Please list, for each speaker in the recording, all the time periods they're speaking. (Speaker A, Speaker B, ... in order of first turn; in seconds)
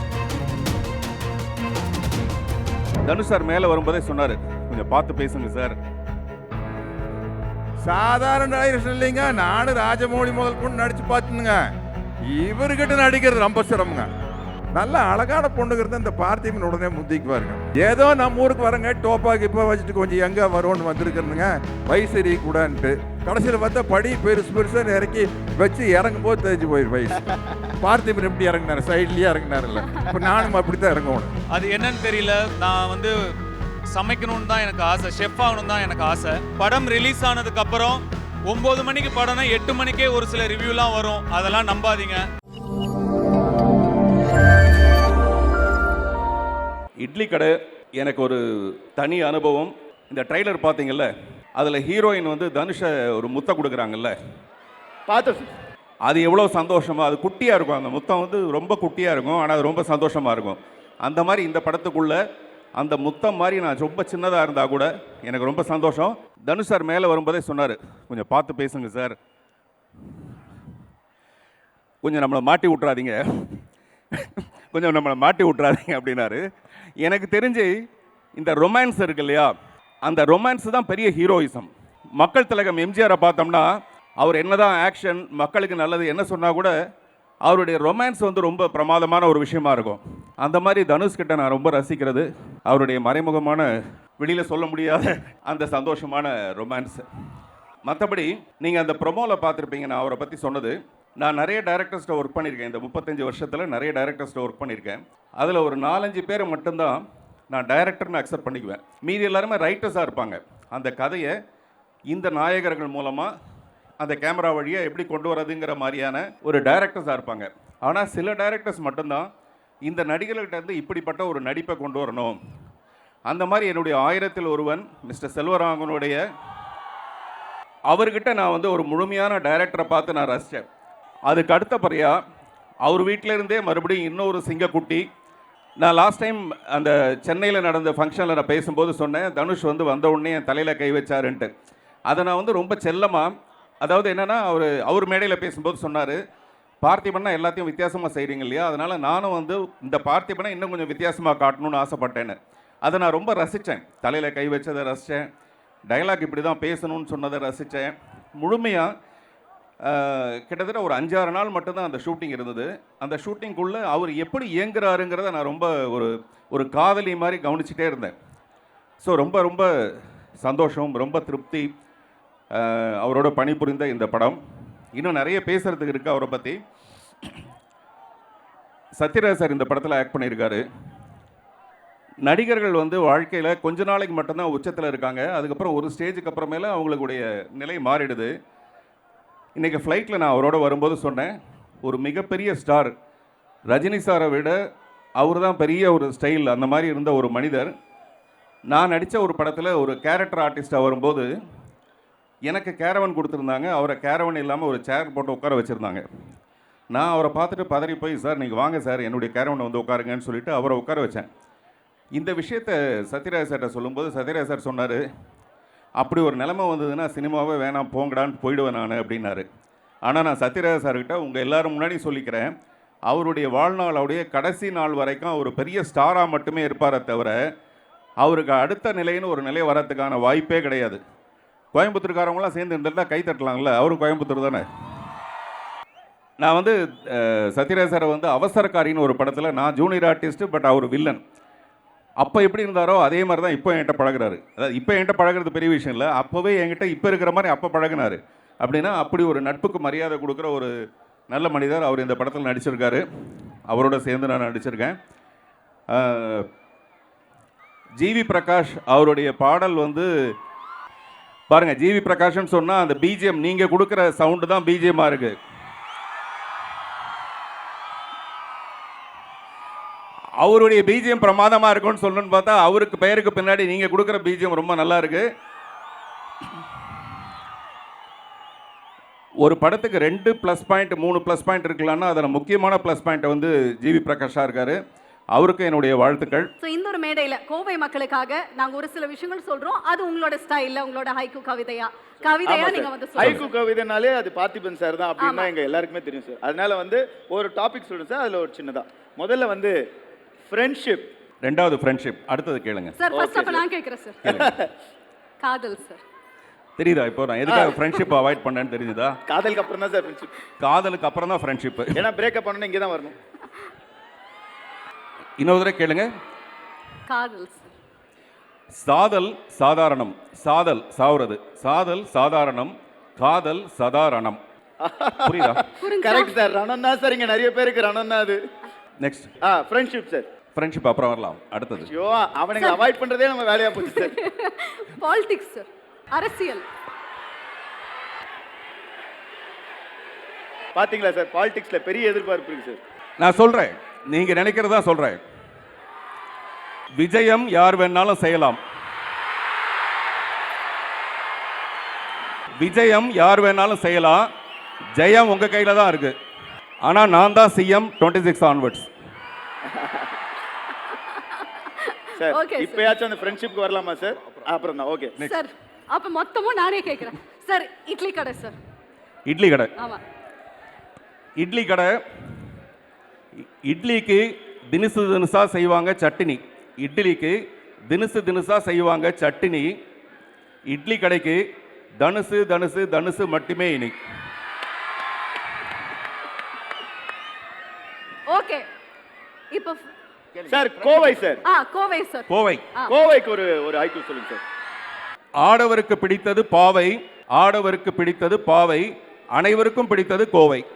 Speaker A: 3.0-5.8, 47.0-54.1, 56.0-62.2, 62.8-69.2, 72.0-73.6, 74.1-76.4, 77.0-77.7, 78.4-79.5, 80.0-83.7, 84.2-86.7, 87.5-97.0, 97.8-107.0, 107.5-111.3, 112.1-113.3, 114.0-119.3, 119.9-122.4, 123.3-126.2, 127.9-130.7, 131.3-132.2, 132.8-135.0, 135.8-141.5, 142.1-143.3, 143.8-146.2, 146.8-155.2, 155.9-158.9, 159.9-168.1, 169.0-169.7, 170.4-171.7, 172.6-174.4, 174.9-176.6, 179.0-180.6, 182.2-188.3, 189.6-191.3, 191.8-192.9, 193.7-194.6, 195.2-197.7, 198.7-201.3, 202.5-206.0, 206.9-211.3, 212.2-215.0, 216.0-219.5, 220.1-222.5, 223.1-227.3, 228.2-231.0, 231.7-234.7, 236.4-241.2, 242.2-250.7, 251.3-253.0, 253.7-255.0, 255.9-256.4, 258.0-260.1, 261.5-265.4, 270.4-275.2, 279.4-284.8, 285.3-286.5, 301.4-303.0, 304.2-304.5, 306.8-309.2, 310.6-312.1, 315.4-316.1, 318.8-324.4, 325.2-325.6, 329.0-329.3, 330.6-331.9, 343.2-345.2, 347.0-348.6, 352.6-354.3, 355.0-356.1, 356.8-358.9, 369.3-369.7, 371.4-371.9, 373.7-377.4, 377.9-379.7, 380.7-381.4, 382.0-384.0, 392.3-392.7, 395.4-400.7
Speaker B: 7.8-11.6, 12.3-14.1, 14.7-27.3, 27.8-31.3
Speaker C: 31.5-33.1, 33.9-42.2
Speaker D: 55.1-55.5, 292.5-299.8, 300.5-301.1, 303.2-303.6, 309.3-310.3, 312.7-313.1, 326.0-328.4, 329.5-330.3, 331.8-334.1, 340.8-342.8, 362.3-365.2, 390.5-391.4, 392.9-394.4
Speaker E: 286.6-293.5, 295.2-295.5, 303.0-304.5, 305.4-306.0, 317.1-317.7, 325.8-326.4, 332.6-332.9, 333.8-336.7, 360.9-363.1, 365.2-368.6, 388.3-388.6, 389.5-389.9, 391.4-393.0